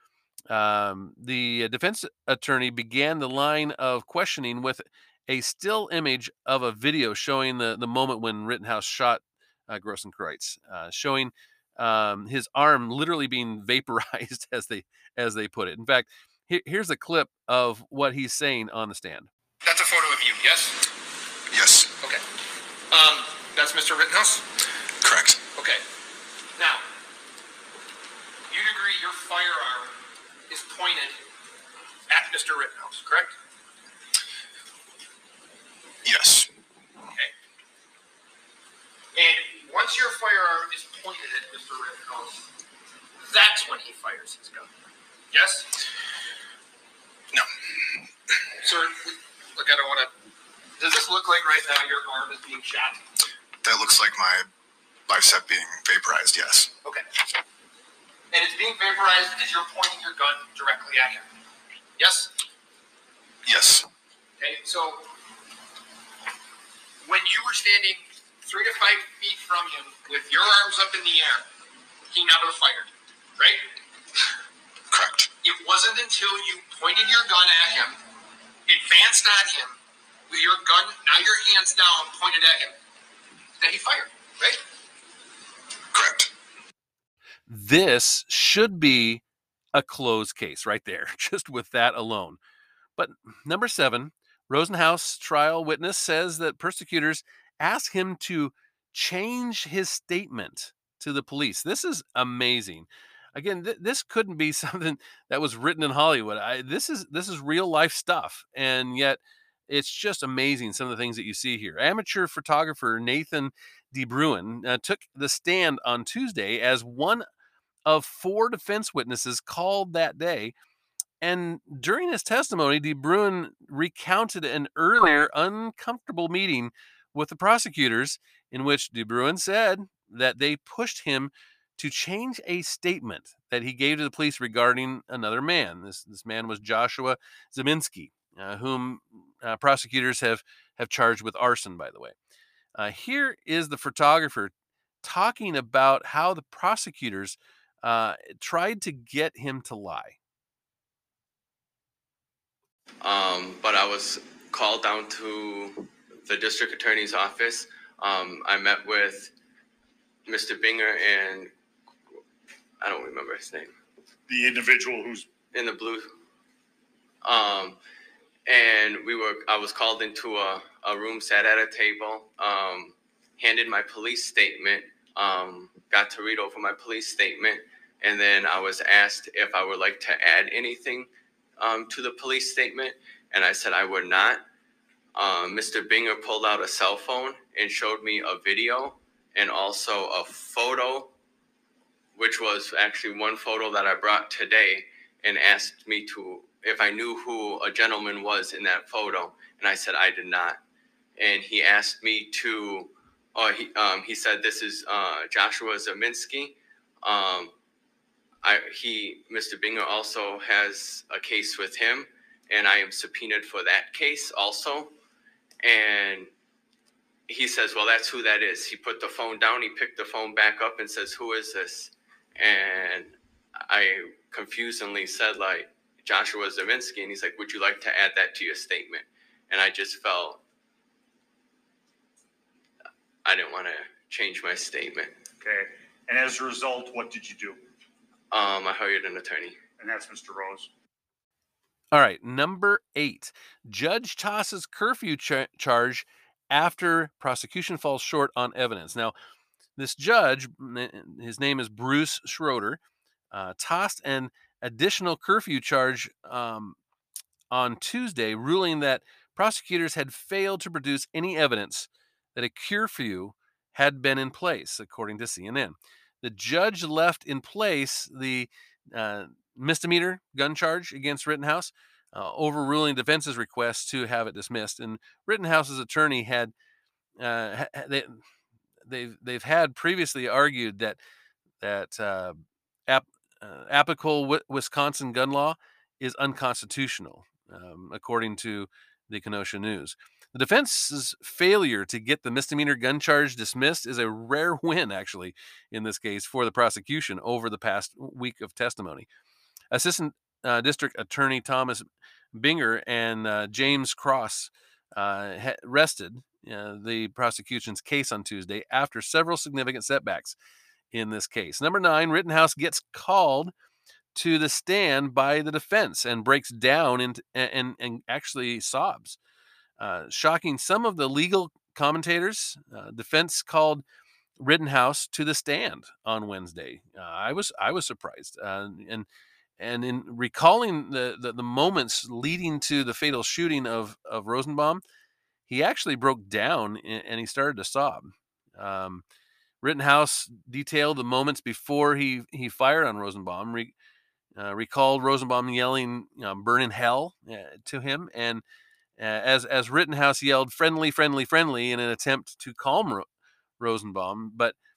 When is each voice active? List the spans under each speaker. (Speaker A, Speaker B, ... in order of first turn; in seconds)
Speaker A: 0.5-19.3, 87.5-89.2, 89.7-92.4, 93.0-117.2, 117.8-120.5, 121.2-142.1, 142.8-144.5, 145.0-150.2, 241.9-249.1, 249.8-252.8, 253.3-256.8, 257.5-276.5, 277.2-278.2, 278.9-281.0, 281.6-299.1, 299.7-310.4, 310.9-313.5, 314.1-319.2, 319.8-323.8, 324.4-329.1, 329.6-334.8, 335.5-339.0, 339.6-343.7, 344.4-348.4, 349.0-353.1, 353.6-354.5
Speaker B: 19.6-20.8, 22.9-24.4, 25.6-25.8, 26.6-26.8, 28.5-29.9, 30.5-31.2, 32.1-33.4, 39.1-42.4, 43.2-44.7, 45.3-45.7, 48.6-50.1, 50.8-53.0, 58.3-61.3, 62.0-62.3, 64.4-65.1, 67.0-71.4, 72.1-73.6, 75.4-78.0, 78.7-79.8, 80.3-82.8, 83.6-84.6
Speaker C: 21.5-21.9, 25.0-25.4, 36.0-36.5, 53.6-54.5, 55.1-56.7, 63.4-63.9, 74.9-75.3, 85.9-86.3
Speaker D: 153.0-159.3, 160.2-161.5, 162.8-163.7, 165.5-166.1, 167.2-167.8, 168.5-184.4, 185.1-191.1, 192.1-200.6, 201.2-207.5, 208.4-214.9, 215.6-216.3, 217.3-230.4, 233.2-235.1, 238.3-239.6
Speaker E: 164.3-165.3, 235.4-237.6, 239.8-240.7